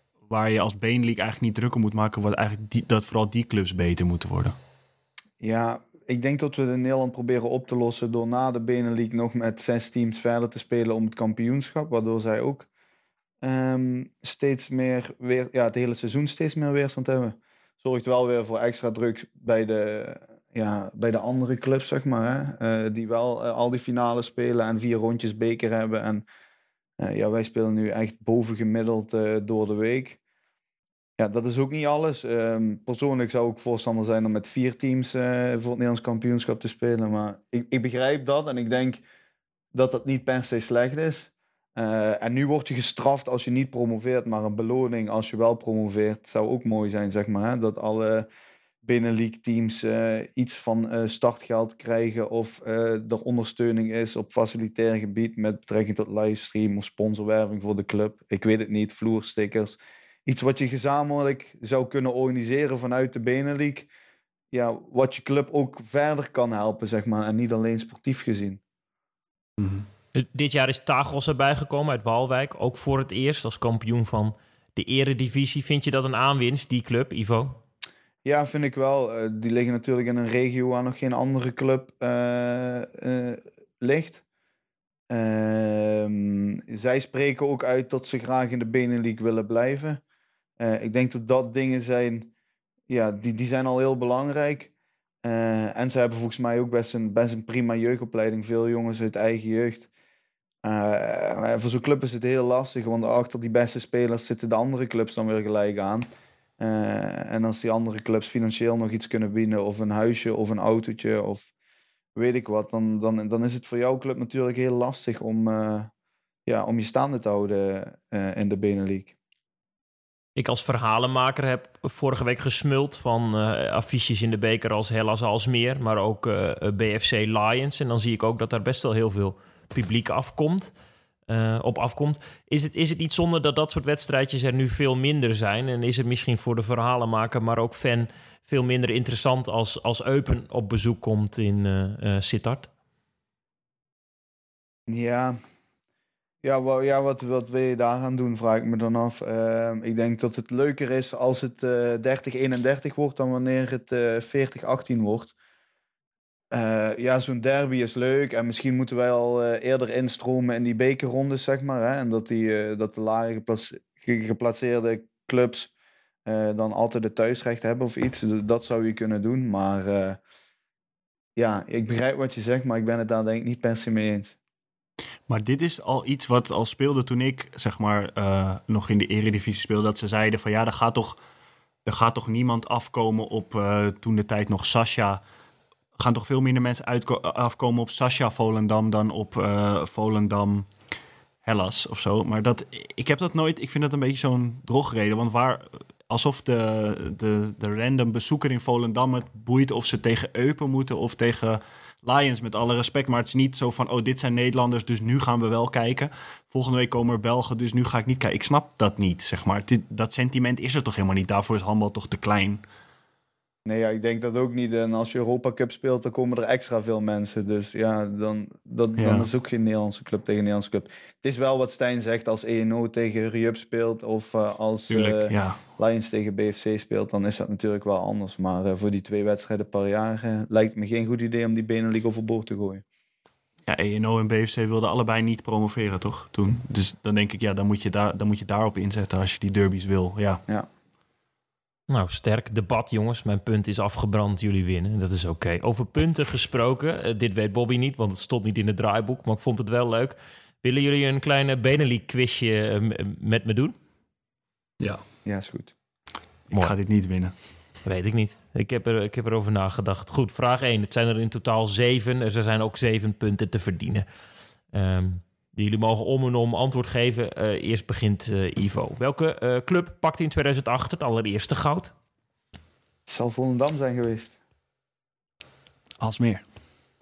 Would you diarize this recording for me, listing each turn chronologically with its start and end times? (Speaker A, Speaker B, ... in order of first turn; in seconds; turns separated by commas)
Speaker A: 0.3-4.5, Speaker B: 5.4-12.7, Speaker B: 13.4-26.2, Speaker B: 27.0-30.2, Speaker B: 31.2-39.0, Speaker B: 39.7-48.3, Speaker B: 48.8-63.9, Speaker B: 64.5-68.6, Speaker A: 69.6-69.8, Speaker C: 70.1-77.6, Speaker B: 78.2-84.2, Speaker B: 85.1-90.0, Speaker B: 90.6-92.3, Speaker B: 92.9-94.7, Speaker B: 95.2-99.9, Speaker B: 100.6-106.1, Speaker B: 106.6-111.5, Speaker B: 112.1-115.9, Speaker B: 116.5-119.1, Speaker C: 120.3-130.7, Speaker C: 131.3-142.7, Speaker B: 144.9-145.4, Speaker B: 146.4-155.3, Speaker B: 156.5-165.7, Speaker B: 166.2-170.2, Speaker B: 171.3-174.4, Speaker A: 175.3-181.2, Speaker A: 181.8-185.2, Speaker A: 185.9-190.7, Speaker A: 191.4-212.6, Speaker B: 213.6-232.8, Speaker A: 219.0-219.3, Speaker A: 224.9-225.6, Speaker A: 233.7-240.4, Speaker C: 241.9-253.8, Speaker B: 255.2-255.7, Speaker A: 256.5-257.3, Speaker C: 257.8-264.1, Speaker C: 264.7-271.9, Speaker B: 273.1-274.3, Speaker A: 276.0-276.4